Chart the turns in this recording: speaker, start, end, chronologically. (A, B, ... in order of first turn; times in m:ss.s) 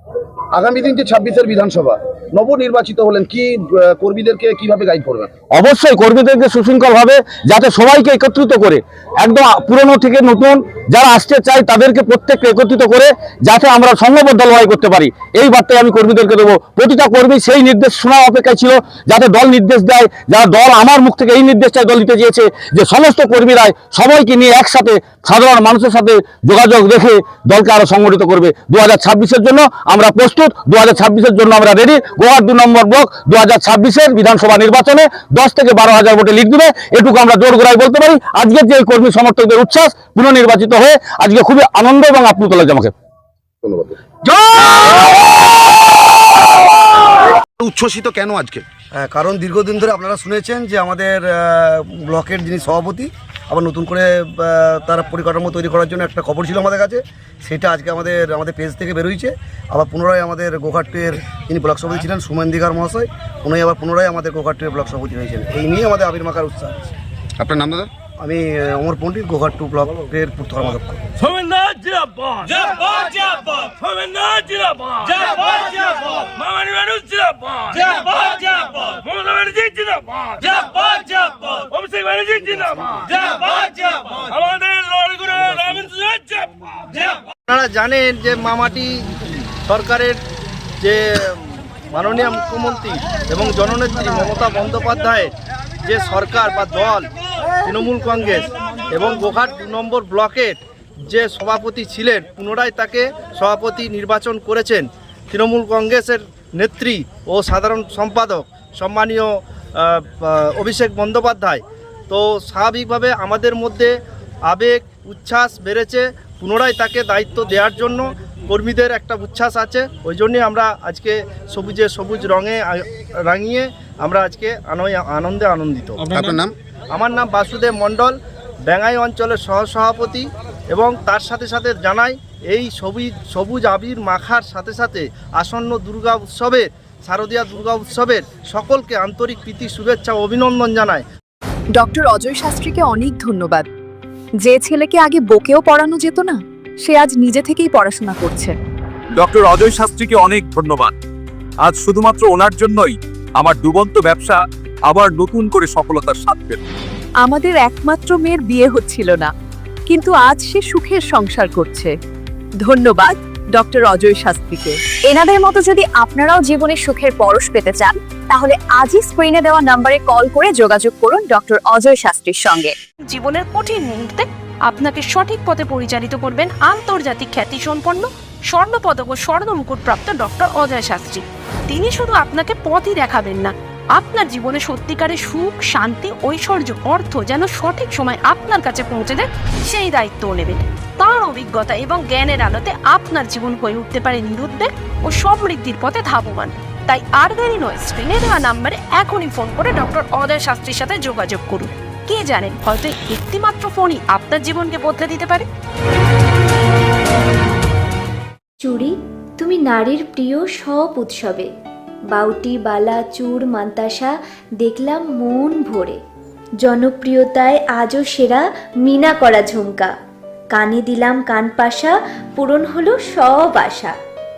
0:00.5-0:05.3 A
0:05.5-0:42.9 B
0:43.6-0:44.0 A
0:47.6-0:48.6 A
0:48.9-1:06.9 C
1:07.4-1:07.9 A
1:08.2-1:11.0 C
1:11.2-1:12.6 D
1:13.8-1:15.3 D
1:16.2-1:18.3 D
1:18.9-1:20.7 D
1:21.6-1:23.3 D
1:24.3-1:26.7 D
1:27.5-1:30.2 E
1:30.8-1:35.3 E
1:35.8-1:37.1 E
1:37.6-1:54.0 E
1:54.5-2:06.0 E
2:06.0-2:06.5 A
2:06.9-2:08.2 E
2:08.7-2:21.0 E
2:21.7-2:23.7 F
2:24.4-2:28.5 F
2:29.2-2:30.9 G
2:31.6-2:36.6 G
2:37.2-2:39.3 F
2:39.9-2:41.9 F
2:42.6-2:44.8 F
2:44.9-2:52.7 H
2:53.1-3:25.5 I
3:28.6-3:31.5 J
3:32.1-3:36.0 J
3:36.6-3:39.9 J
3:40.5-3:43.9 J